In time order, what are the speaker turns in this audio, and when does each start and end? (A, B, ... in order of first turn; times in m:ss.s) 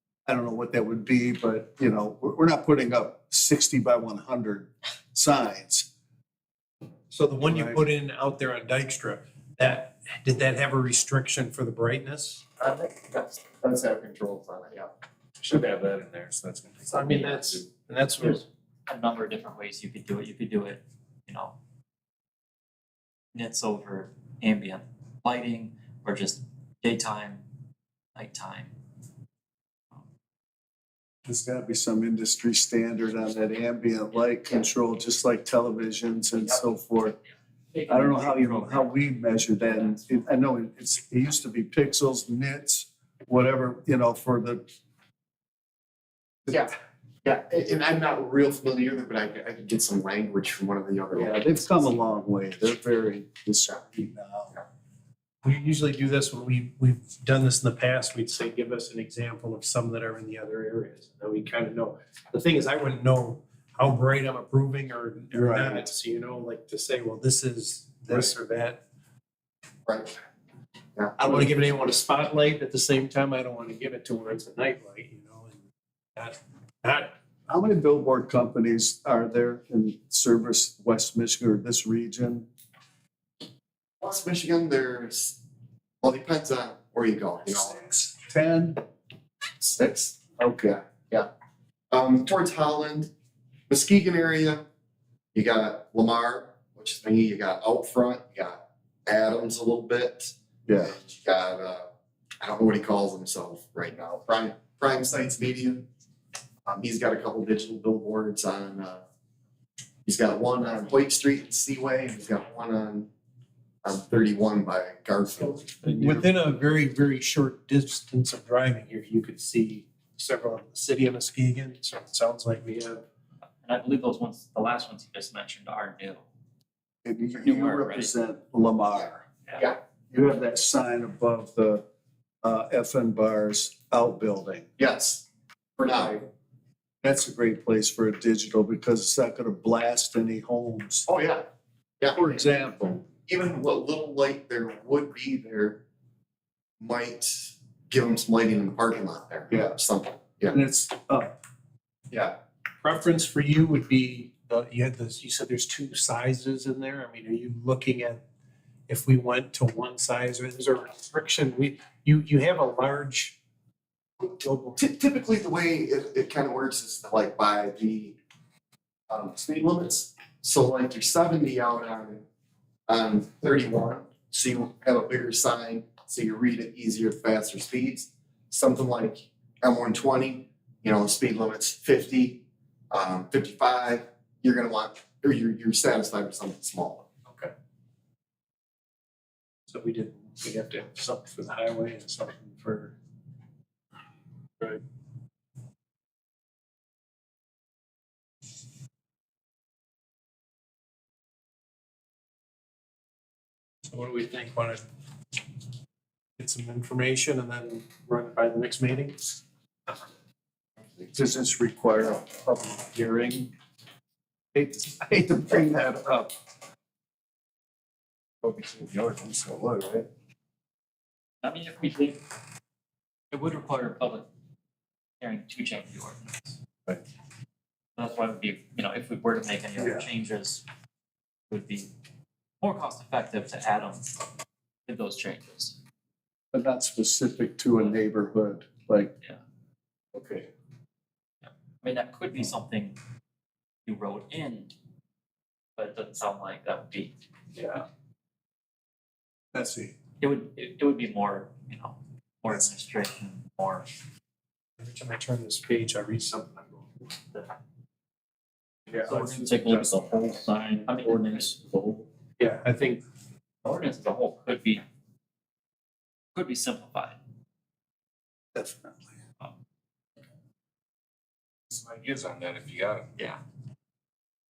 0:00.3-0:05.9 A
0:07.1-0:12.4 B
0:07.4-0:07.8 A
0:12.6-0:14.9 C
0:15.4-0:17.7 D
0:16.9-0:18.4 B
0:18.9-0:21.6 E
0:23.3-0:27.4 E
0:28.1-0:28.8 E
0:31.2-0:37.2 A
0:37.7-0:39.0 E
0:37.9-0:44.6 A
0:39.6-0:40.0 E
0:47.2-0:51.3 C
0:51.1-0:54.6 A
0:55.4-1:08.8 B
1:05.3-1:05.8 A
1:09.8-1:10.1 C
1:11.0-1:11.3 C
1:11.2-1:15.6 B
1:16.1-1:17.1 B
1:17.5-1:22.5 A
1:24.0-1:25.4 C
1:26.0-1:27.9 C
1:27.5-1:28.8 A
1:29.6-1:31.3 C
1:31.9-1:33.1 C
1:33.7-1:34.6 C
1:35.3-1:41.9 C
1:40.7-1:40.9 A
1:42.4-1:45.8 C
1:46.6-1:49.0 C
1:50.0-1:53.1 C
1:53.8-1:55.8 C
1:55.8-1:56.2 A
1:55.8-2:03.0 B
2:03.6-2:06.2 E
2:07.0-2:09.2 A
2:07.4-2:08.1 E
2:10.1-2:11.8 A
2:12.4-2:14.7 A
2:14.8-2:15.2 C
2:15.8-2:16.2 C
2:17.0-2:21.1 A
2:21.1-2:21.4 C
2:22.0-2:22.4 C
2:22.1-2:23.0 A
2:23.0-2:25.8 C
2:26.8-2:30.6 C
2:29.5-2:29.8 A
2:30.5-2:31.4 A
2:32.1-2:32.4 C
2:32.8-2:38.2 B
2:38.9-2:43.4 B
2:44.2-2:44.8 B
2:44.8-2:48.2 C
2:49.1-2:52.2 C
2:52.9-3:07.1 C
3:07.3-3:07.5 B
3:09.7-3:13.0 B
3:23.8-3:24.8 B
3:26.4-3:29.4 B
3:31.1-3:33.5 A
3:34.5-3:36.3 A
3:38.4-3:40.0 A
3:41.4-3:42.2 E
3:43.3-3:44.3 E
3:45.2-3:46.6 E
3:48.0-3:50.6 E
3:49.8-3:50.0 A
3:51.5-3:51.9 E
3:52.6-3:54.2 E
3:54.8-3:55.8 E
3:56.5-3:59.1 A
4:00.1-4:00.4 A
4:01.4-4:03.0 E
4:03.8-4:04.8 E
4:05.8-4:07.1 E
4:07.6-4:07.8 A
4:09.5-4:09.9 A
4:10.2-4:13.9 E
4:14.8-4:16.9 B
4:19.0-4:19.4 B
4:19.0-4:22.0 E
4:22.4-4:23.0 B
4:23.6-4:24.8 E
4:26.3-4:27.2 E
4:28.5-4:29.1 A
4:31.7-4:33.1 D